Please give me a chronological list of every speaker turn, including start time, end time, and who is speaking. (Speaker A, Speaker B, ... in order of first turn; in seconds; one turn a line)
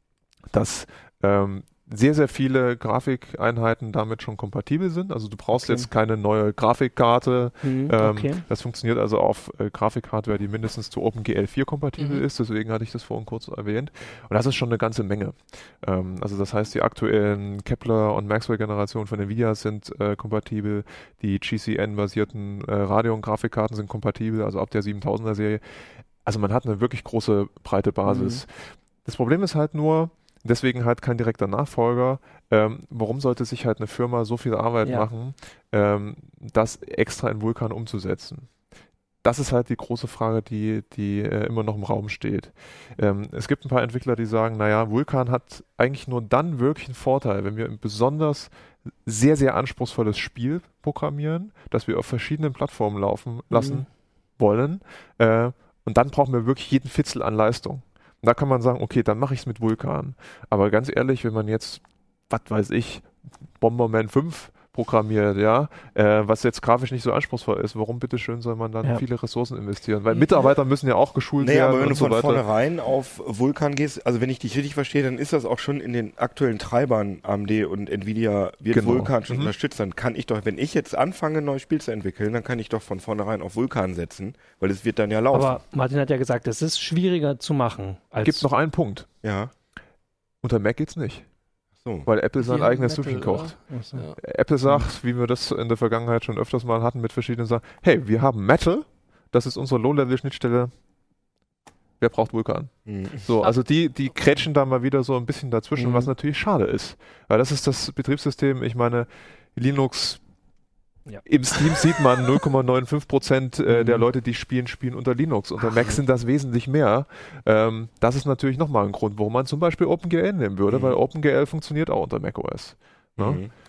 Speaker A: 0.5-38.5
Speaker B: 5.5-5.9
Speaker B: 7.6-8.4
Speaker C: 12.0-12.2
Speaker B: 28.1-28.4
Speaker A: 39.2-48.5
Speaker A: 49.0-72.4
Speaker B: 53.5-53.8
Speaker D: 71.4-85.6
Speaker A: 78.7-79.5
Speaker B: 85.3-88.5
Speaker A: 88.2-89.1
Speaker D: 89.2-89.5
Speaker A: 90.4-91.3
Speaker D: 91.8-92.1
Speaker A: 92.0-93.6
Speaker C: 92.4-94.2
Speaker B: 93.7-94.0
Speaker A: 94.2-100.7
Speaker A: 102.0-110.2
Speaker D: 102.8-103.3
Speaker B: 105.8-106.1
Speaker A: 111.2-123.4
Speaker B: 113.7-114.1
Speaker D: 115.6-116.0
Speaker D: 120.7-121.0
Speaker D: 123.2-123.5